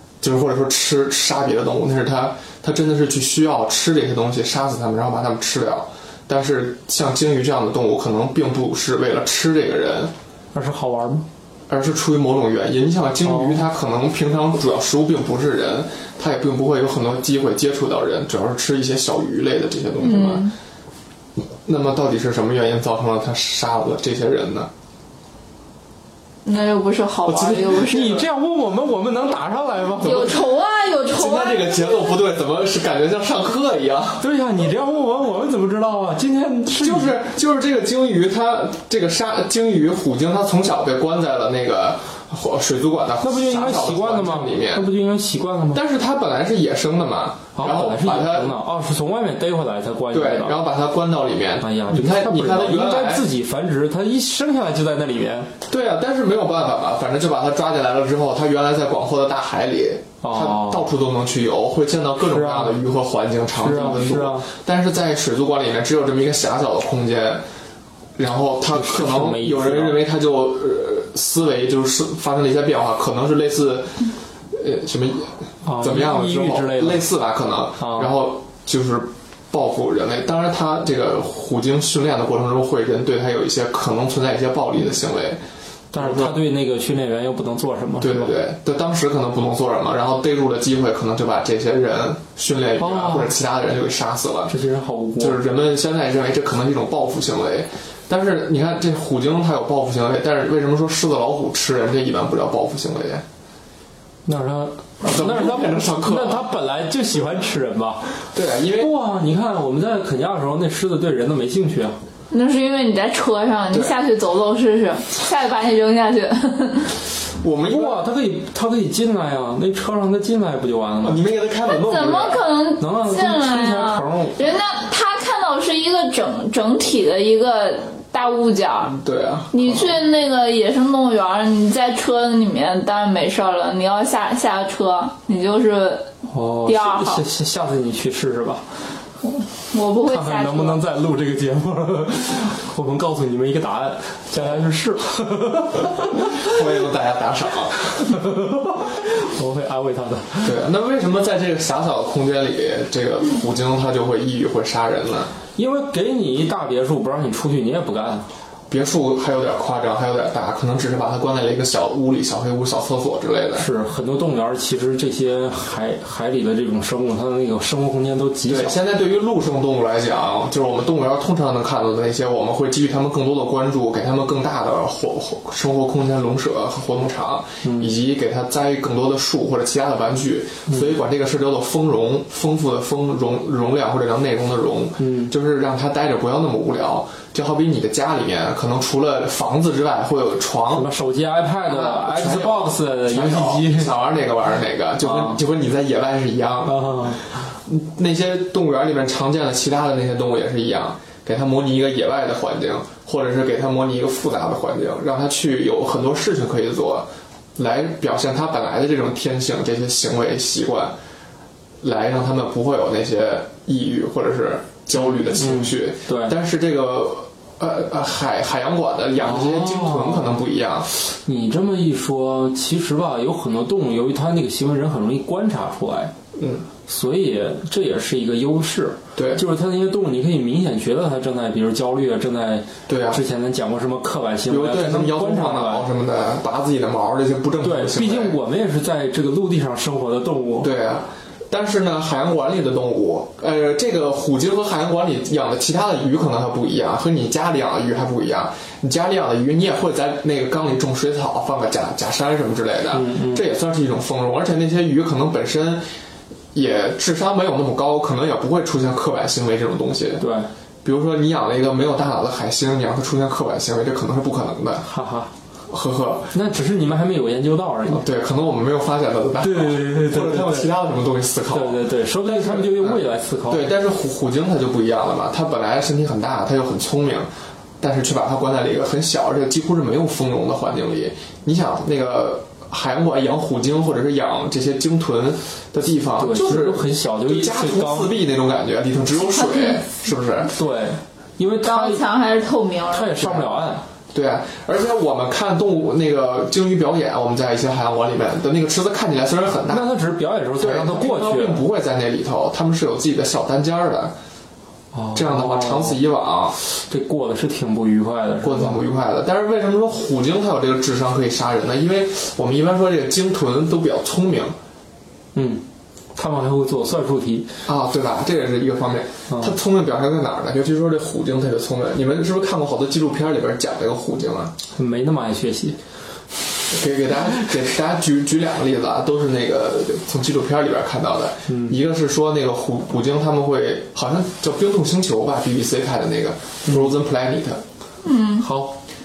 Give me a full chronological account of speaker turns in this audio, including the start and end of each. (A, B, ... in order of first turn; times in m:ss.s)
0:00.2-0:10.1 A
0:10.5-0:11.2 B
0:11.7-0:20.5 A
0:13.2-0:13.6 B
0:20.0-0:20.5 C
0:21.6-0:24.7 A
0:26.4-0:28.2 C
0:27.3-0:27.8 A
0:27.4-0:30.4 B
0:30.0-0:32.1 C
0:31.1-0:34.2 A
0:34.2-0:37.2 B
0:36.8-0:44.9 A
0:43.2-0:45.8 B
0:45.7-0:48.6 A
0:47.5-0:50.6 B
0:50.1-0:53.3 A
0:51.6-0:55.5 B
0:55.7-1:07.4 A
1:00.2-1:00.8 B
1:02.2-1:02.8 B
1:03.5-1:04.5 B
1:08.2-1:25.4 A
1:08.7-1:10.0 B
1:15.6-1:17.0 B
1:17.8-1:18.1 B
1:25.9-1:28.3 B
1:25.9-1:26.4 A
1:28.0-1:34.5 A
1:32.8-1:33.3 B
1:34.5-1:35.4 B
1:35.2-1:43.2 A
1:44.2-1:48.2 B
1:45.0-1:46.5 A
1:48.3-1:48.9 A
1:48.8-1:52.0 B
1:52.3-1:56.9 C
1:57.4-1:58.0 A
1:57.7-2:01.2 B
2:01.0-2:02.5 A
2:01.7-2:09.0 C
2:02.8-2:04.4 B
2:08.9-2:10.0 A
2:09.5-2:16.1 C
2:16.3-2:18.7 B
2:16.6-2:17.2 C
2:19.7-2:20.8 C
2:20.0-2:26.6 B
2:26.2-2:28.1 A
2:27.9-2:30.5 B
2:30.4-2:35.3 A
2:35.6-2:38.3 B
2:38.7-2:43.6 A
2:43.5-2:48.8 B
2:48.4-3:10.9 A
2:57.6-2:57.9 B
3:05.0-3:05.3 B
3:10.7-3:14.0 B
3:11.7-3:30.9 A
3:15.0-3:15.4 B
3:16.6-3:17.2 B
3:31.8-3:40.9 A
3:34.9-3:36.4 B
3:39.2-3:40.4 B
3:41.2-3:46.1 B
3:46.4-3:46.6 A
3:46.8-3:55.9 B
3:49.2-3:49.4 A
3:52.9-3:53.2 A
3:54.5-3:58.4 A
3:57.6-4:00.7 B
4:00.6-4:15.8 A
4:12.9-4:13.4 B
4:16.5-4:20.2 A
4:20.2-4:20.5 B
4:20.8-4:24.8 A
4:24.8-4:25.3 B
4:25.7-4:26.3 A
4:26.3-4:28.0 B
4:27.9-4:37.3 A
4:29.4-4:30.7 B
4:31.5-4:33.7 B
4:37.8-4:50.5 A
4:46.2-4:48.1 B
4:49.4-4:49.8 C
4:50.5-4:52.0 B
4:51.6-4:53.4 C
4:52.9-4:53.8 B
4:54.1-4:59.9 A
4:59.7-5:01.6 B
5:00.6-5:04.1 A
5:04.9-5:06.0 B
5:05.1-5:06.6 A
5:06.6-5:08.8 B
5:08.4-5:14.5 A
5:15.3-5:15.6 B
5:16.1-5:17.5 B
5:17.6-5:24.5 A
5:19.3-5:19.6 B
5:24.7-5:25.8 B
5:26.7-5:37.6 A
5:31.5-5:31.8 B
5:36.6-5:36.9 B
5:38.0-5:38.4 C
5:38.4-5:38.8 B